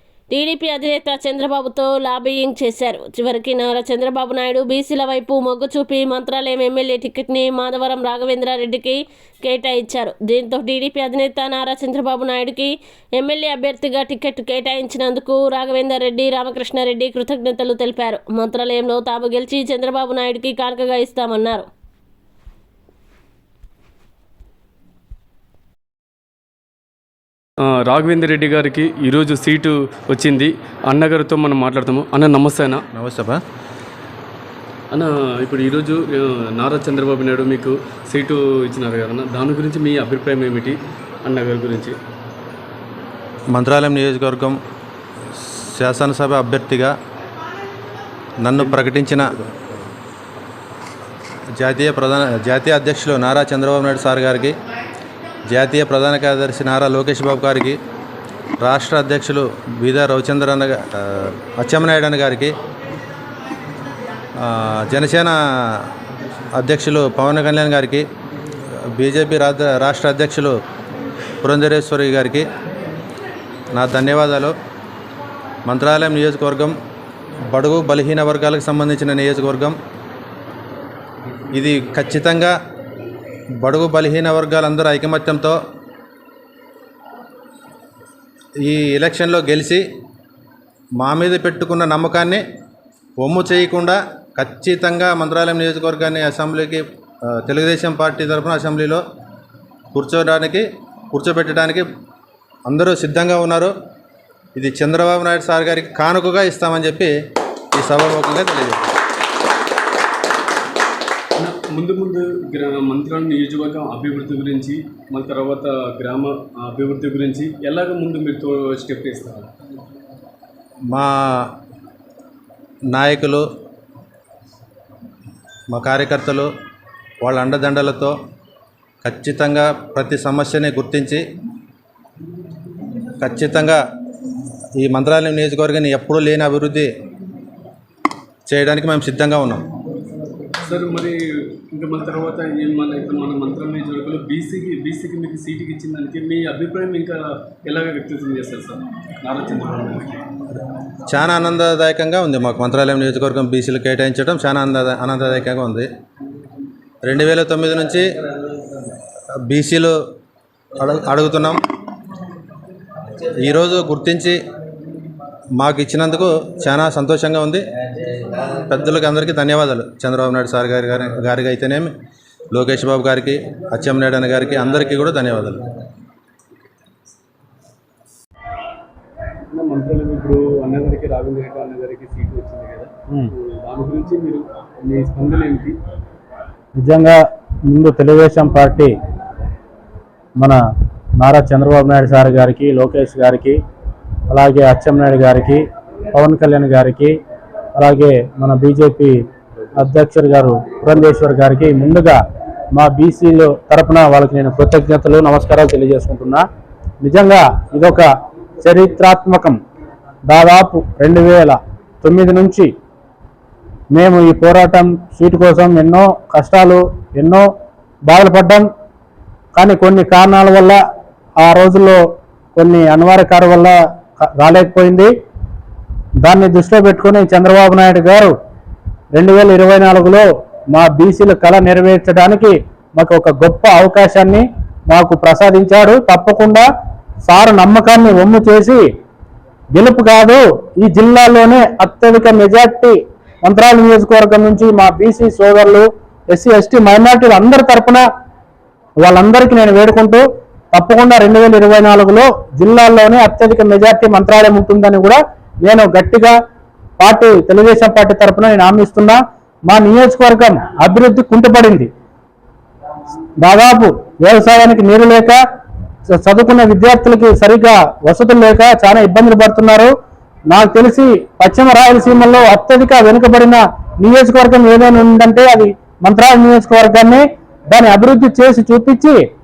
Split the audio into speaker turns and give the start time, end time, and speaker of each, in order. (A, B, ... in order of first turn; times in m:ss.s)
0:00.3-0:21.7 A
0:27.6-0:32.8 B
0:32.9-0:33.4 C
0:34.9-0:42.0 B
0:43.5-0:44.6 C
0:45.3-0:46.9 C
0:48.4-0:49.5 C
0:51.6-0:54.6 C
0:55.5-0:57.8 C
0:58.6-1:02.5 C
1:04.4-1:05.9 C
1:06.6-1:08.1 C
1:08.8-1:10.6 C
1:11.4-1:12.5 C
1:13.7-1:14.5 C
1:15.7-1:16.8 C
1:17.5-1:19.8 C
1:21.5-1:22.5 C
1:23.6-1:25.6 C
1:28.6-1:29.8 C
1:31.0-1:32.4 C
1:33.2-1:39.0 C
1:39.9-1:41.9 C
1:42.7-1:43.7 C
1:44.6-1:47.1 C
1:47.7-1:49.0 C
1:51.4-1:59.5 B
2:00.9-2:01.5 C
2:02.9-2:03.4 C
2:05.7-2:06.5 C
2:07.2-2:08.2 C
2:09.0-2:11.2 C
2:13.2-2:13.8 C
2:14.8-2:16.9 C
2:18.5-2:19.6 C
2:20.6-2:30.2 B
2:31.1-2:35.9 C
2:37.0-2:38.1 C
2:39.5-2:40.0 C
2:40.8-2:41.6 C
2:43.3-2:44.4 C
2:45.6-2:47.6 C
2:48.4-2:51.9 C
2:52.5-2:55.7 C
2:59.5-3:05.8 B
3:06.8-3:08.9 D
3:11.2-3:13.6 D
3:14.3-3:17.2 D
3:17.8-3:19.2 D
3:19.8-3:22.2 D
3:22.7-3:26.4 D
3:27.0-3:28.1 D
3:28.6-3:29.6 D
3:30.3-3:32.7 D
3:33.9-3:37.5 D
3:38.1-3:38.7 D
3:39.6-3:40.8 D
3:41.4-3:42.0 D
3:42.6-3:45.1 D
3:46.2-3:48.4 D
3:49.1-3:56.7 D
3:57.3-3:58.9 D
3:59.7-4:08.0 D
4:09.0-4:16.3 D
4:17.0-4:21.9 D
4:23.4-4:25.4 D
4:26.2-4:29.9 D
4:30.5-4:39.2 D